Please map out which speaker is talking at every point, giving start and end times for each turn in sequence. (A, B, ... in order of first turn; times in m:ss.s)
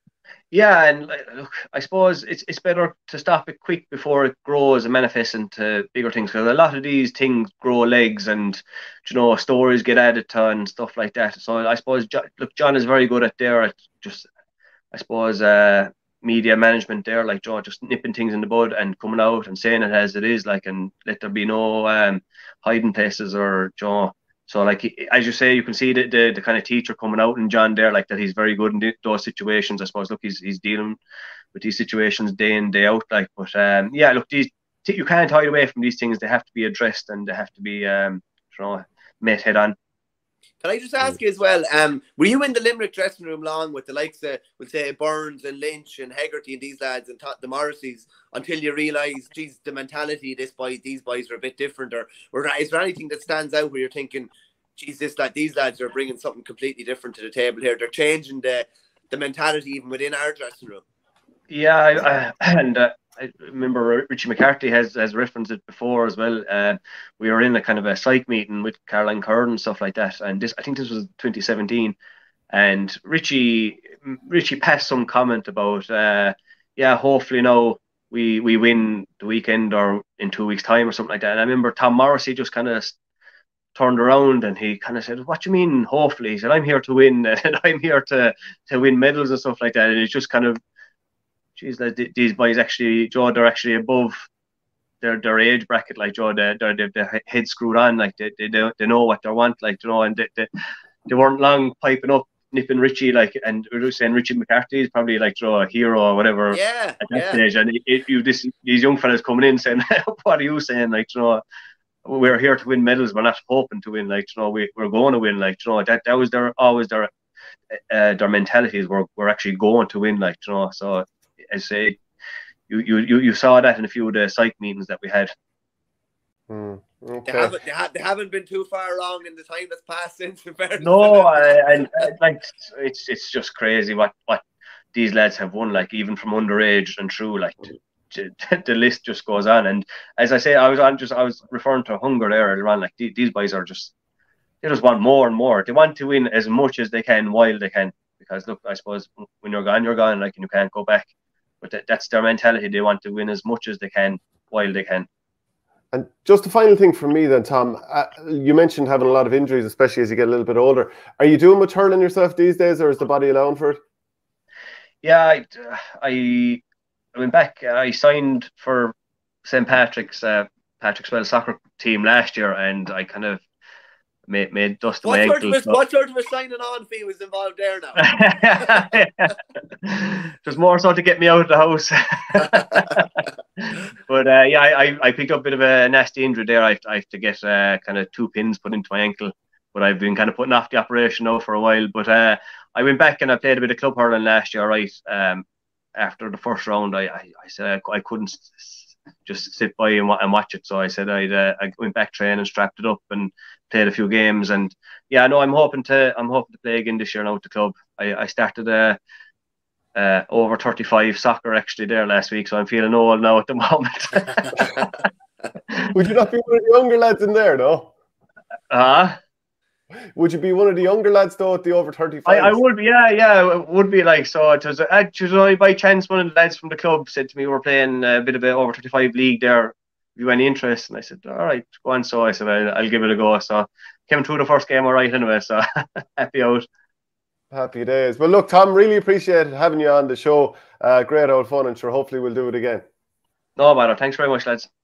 0:00.5-0:14.3 A
0:14.9-0:31.0 A
0:31.5-0:39.8 A
0:40.6-1:00.8 B
1:01.5-1:12.0 A
1:12.5-1:23.0 A
1:23.8-1:30.6 A
1:31.6-1:34.3 A
1:35.0-1:40.5 A
1:41.1-1:51.4 A
1:46.5-1:47.4 B
1:52.0-1:57.1 A
1:57.7-2:02.0 A
2:02.7-2:05.3 A
2:06.5-2:07.5 C
2:07.3-2:12.1 B
2:10.8-2:14.4 A
2:14.9-2:23.9 A
2:24.6-2:31.1 A
2:31.6-2:35.1 A
2:35.9-2:43.8 C
2:45.0-2:46.6 A
2:47.2-2:48.9 A
2:49.4-2:53.4 A
2:54.3-2:55.8 A
2:55.0-2:59.0 B
2:58.0-3:15.4 A
3:16.0-3:29.0 A
3:30.0-3:35.0 A
3:35.9-3:37.9 C
3:38.7-3:39.2 A
3:40.2-3:42.5 C
3:42.3-3:56.7 A
3:57.5-4:02.8 C
4:03.6-4:04.7 A